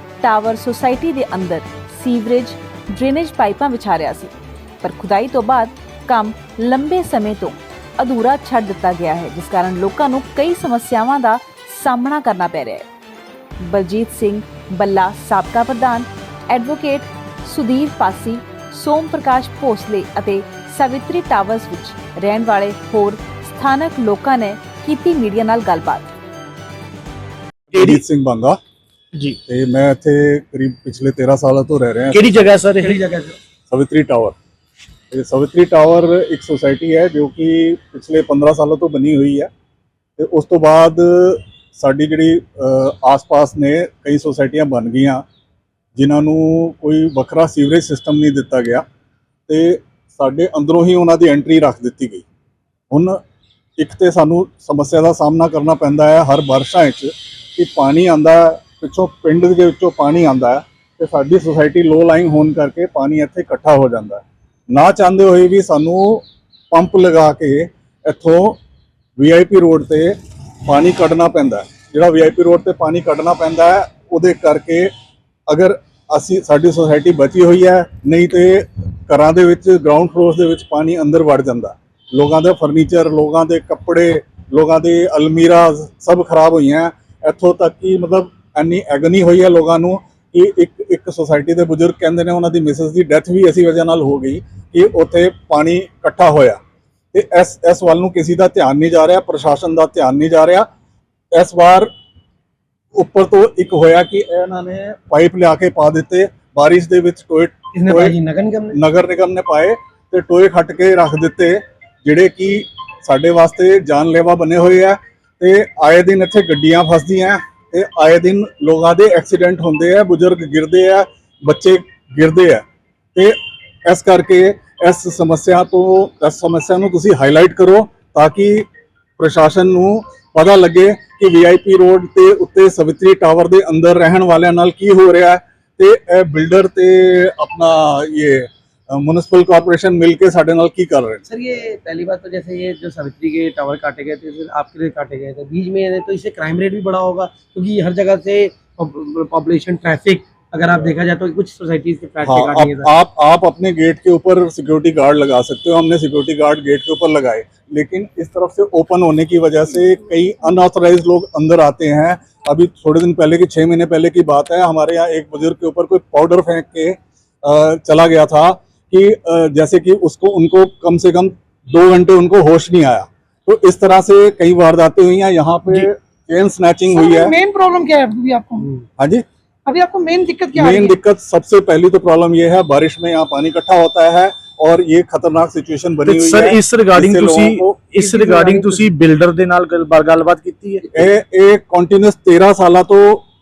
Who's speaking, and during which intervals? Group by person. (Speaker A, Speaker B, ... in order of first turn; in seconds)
Speaker A: 0.2-12.8, 13.6-26.1
Speaker B: 27.7-28.0, 32.1-33.0, 186.0-191.0
Speaker C: 27.7-28.6, 29.5-32.3, 33.7-34.4, 35.1-39.5, 40.2-45.2, 46.0-48.8, 49.5-52.2, 52.9-53.2, 53.8-68.6, 69.2-74.9, 75.5-96.6, 97.1-100.7, 101.3-101.9, 102.9-108.2, 108.7-122.6, 123.1-128.7, 129.2-141.2, 152.2-177.3, 179.0-179.2, 180.5-187.8, 190.9-193.2
Speaker D: 32.8-33.4, 107.7-108.8, 141.3-152.9, 188.3-188.8
Speaker E: 176.9-178.8, 179.7-180.9